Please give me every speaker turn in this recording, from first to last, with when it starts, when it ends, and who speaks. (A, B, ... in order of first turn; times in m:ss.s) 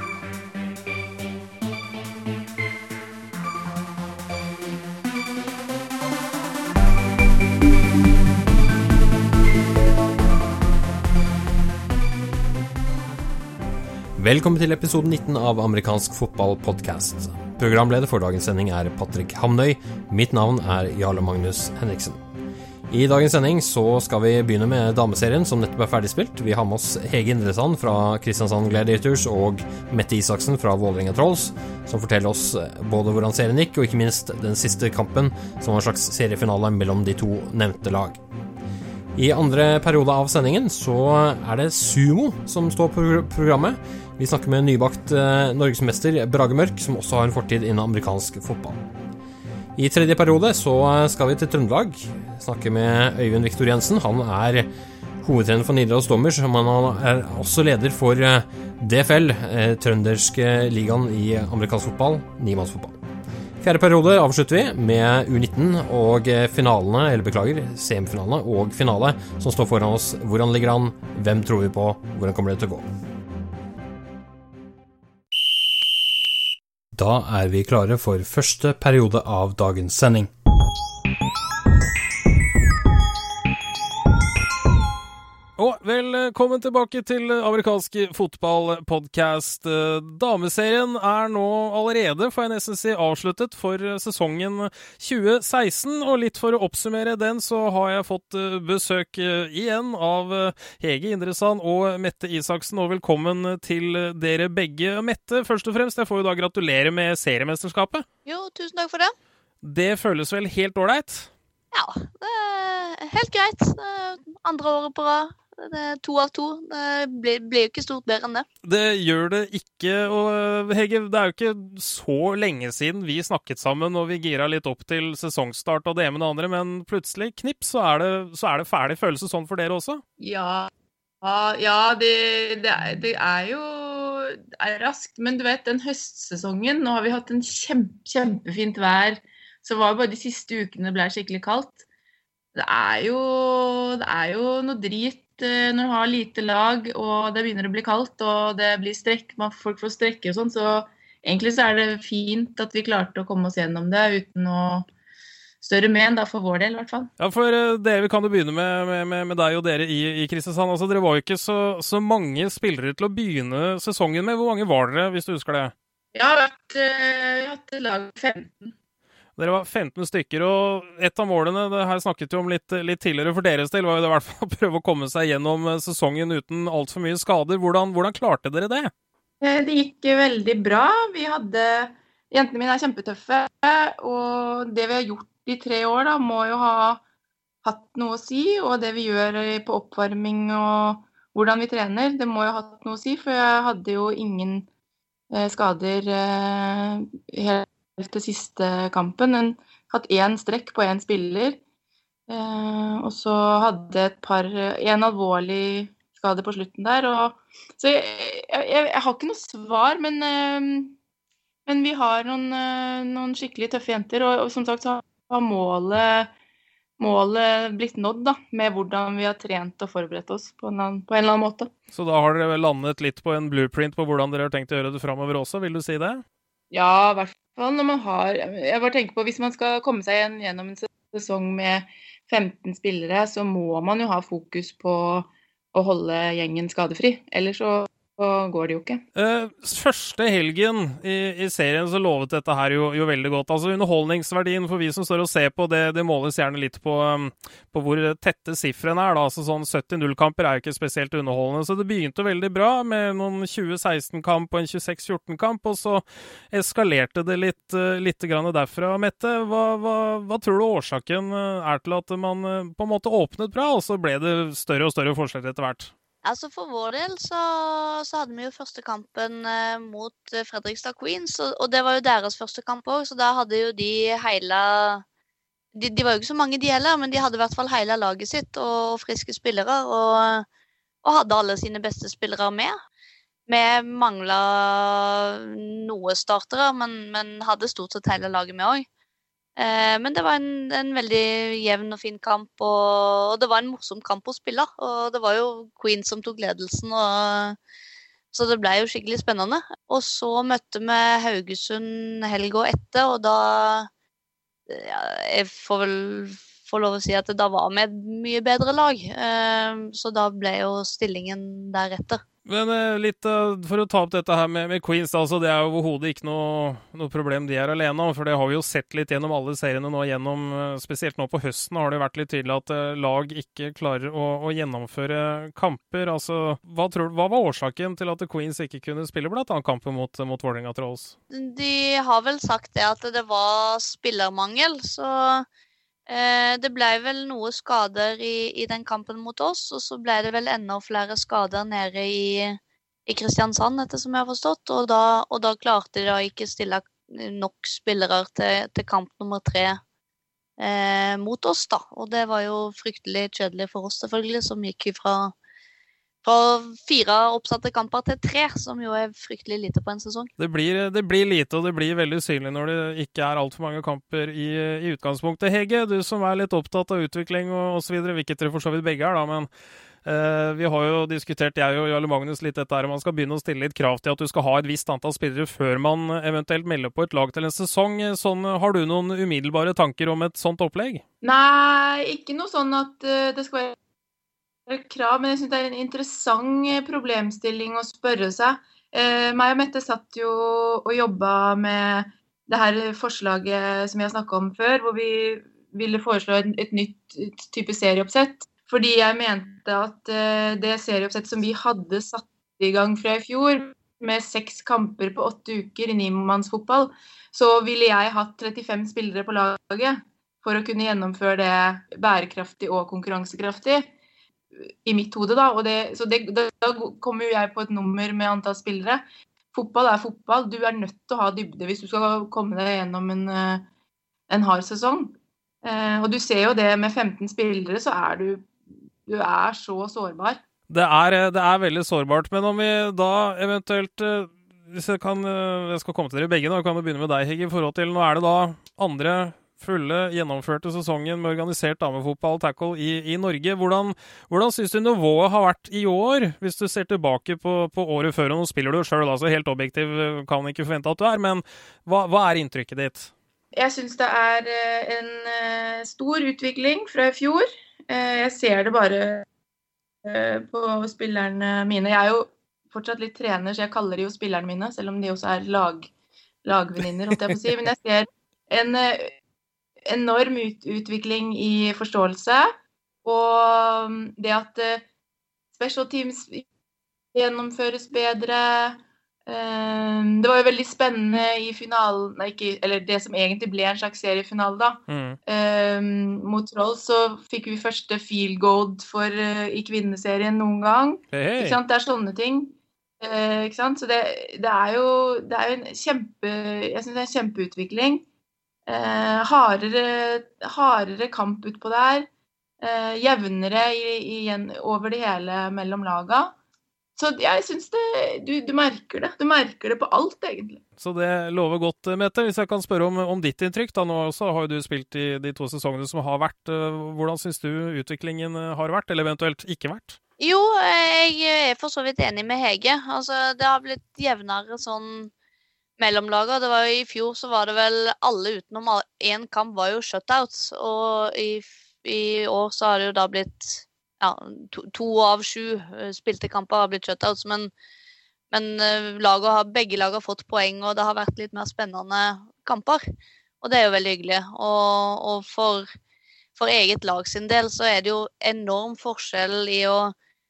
0:14.2-0:22.2 A
0:22.9-0:38.2 A
0:39.2-0:48.8 A
0:49.8-0:54.7 A
0:55.2-1:03.0 A
1:03.6-1:12.9 A
1:17.0-1:20.3 A
1:25.6-1:48.0 B
1:48.3-1:49.1 C
1:49.6-1:51.3 B
1:51.7-1:58.4 C
1:58.6-2:10.0 B
2:10.2-2:10.7 D
2:11.2-2:21.8 D
2:22.6-2:34.9 D
2:35.6-2:37.1 D
2:37.2-2:45.7 B
2:46.2-2:48.7 D
2:49.4-2:58.9 B
2:59.4-3:07.0 D
3:07.6-3:14.7 D
3:15.3-3:21.6 D
3:22.3-3:31.0 D
3:31.7-3:36.3 D
3:37.0-3:41.7 D
3:41.9-3:46.2 B
3:46.7-3:59.0 D
3:59.2-4:25.9 B
4:26.2-4:35.0 C
4:35.8-4:40.4 C
4:41.0-4:42.7 C
4:43.5-4:48.9 C
4:49.6-4:57.6 C
4:58.3-5:03.9 C
5:04.7-5:12.2 C
5:12.5-5:31.1 B
5:31.3-5:35.4 C
5:36.1-5:49.8 C
5:50.6-5:55.3 C
5:56.2-6:00.3 C
6:00.4-6:09.5 B
6:10.0-6:21.0 B
6:21.2-6:23.8 D
6:24.7-6:53.9 D
6:54.7-6:59.0 D
6:59.5-7:03.6 D
7:04.3-7:08.5 D
7:09.1-7:10.4 D
7:10.7-7:33.1 B
7:33.6-7:39.2 D
7:40.0-7:45.9 D
7:46.4-7:49.2 D
7:49.9-7:52.5 D
7:53.0-7:54.8 D
7:55.6-7:56.4 D
7:57.1-8:18.0 D
8:04.9-8:05.2 B
8:11.1-8:11.6 B
8:18.7-8:22.1 D
8:22.6-8:26.3 D
8:27.0-8:30.6 D
8:30.8-8:40.0 B
8:40.2-8:45.1 C
8:45.8-8:57.5 C
8:58.3-9:02.8 C
9:03.4-9:05.7 C
9:06.4-9:09.9 C